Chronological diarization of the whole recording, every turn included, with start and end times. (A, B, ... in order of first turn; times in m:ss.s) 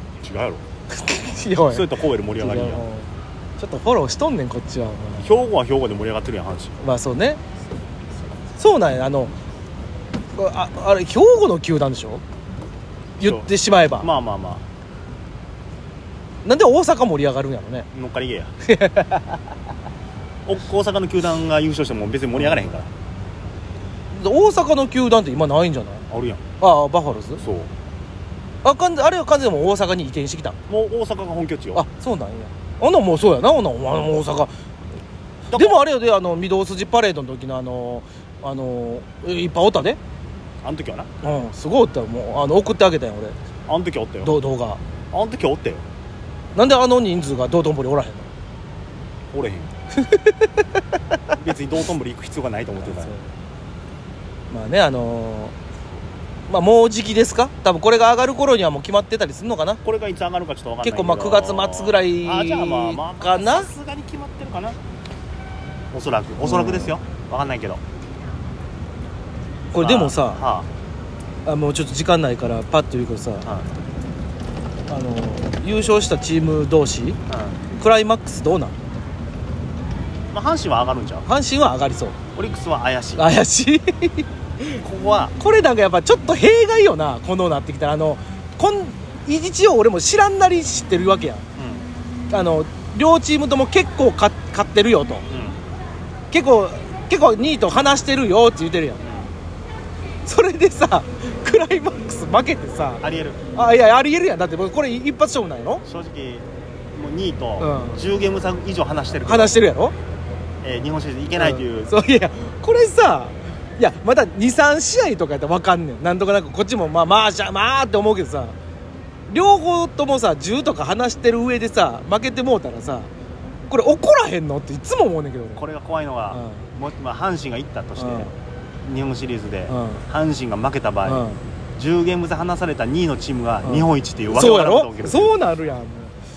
0:00.2-0:00.6 A
0:00.9-0:05.3 B
0:01.7-0:02.8 A
0:05.2-0:06.8 A
0:06.8-0:07.4 B
0:08.6-0:09.3 B
0:10.3-0:12.2 B
0:13.2-0:14.1 B
0:13.2-0:14.6 A
0:16.4-0:17.9 B
0:17.9-0:18.5 A
0:18.7-0:19.4 B
0:20.4-0:22.9 A
0:24.1-0:26.0 B
0:26.1-0:26.4 A
0:26.6-0:27.4 B
0:27.4-0:27.7 A
0:28.6-0:30.6 B
0:30.7-0:31.8 A
0:31.7-0:34.5 B
0:35.5-0:35.8 A
0:35.5-0:40.0 B
0:40.6-0:41.1 A
0:41.2-0:43.4 B
0:43.7-0:44.4 A
0:44.2-0:44.8 B
0:45.1-0:45.8 A
0:46.6-0:48.3 B
0:49.3-0:49.7 A
0:50.0-0:50.5 B
0:51.4-0:53.1 A
0:52.8-0:53.3 B
0:54.5-0:55.5 B
0:56.5-0:59.8 B
0:59.8-1:04.8 A
1:00.8-1:03.7 B
1:05.9-1:07.8 A
1:06.4-1:06.9 B
1:09.7-1:10.4 B
1:09.7-1:10.7 A
1:11.4-1:13.4 B
1:14.9-1:17.2 B
1:17.3-1:17.6 A
1:17.7-1:18.8 B
1:20.3-1:21.3 A
1:21.2-1:22.2 B
1:22.3-1:23.3 A
1:23.2-1:24.8 B
1:24.8-1:25.3 A
1:25.4-1:31.4 B
1:31.6-1:31.9 A
1:32.3-1:35.2 B
1:35.3-1:35.6 A
1:36.3-1:39.0 B
1:39.0-1:39.3 A
1:40.2-1:43.0 B
1:43.0-1:43.4 A
1:43.5-1:45.8 B
1:45.8-1:49.6 A
1:47.6-1:48.0 B
1:49.2-1:49.9 B
1:50.6-1:51.9 A
1:51.4-1:58.5 B
1:59.3-2:03.1 B
2:03.7-2:05.6 B
2:05.5-2:15.4 A
2:06.3-2:06.6 B
2:08.0-2:08.3 B
2:09.7-2:10.0 B
2:11.0-2:11.4 B
2:13.6-2:16.1 B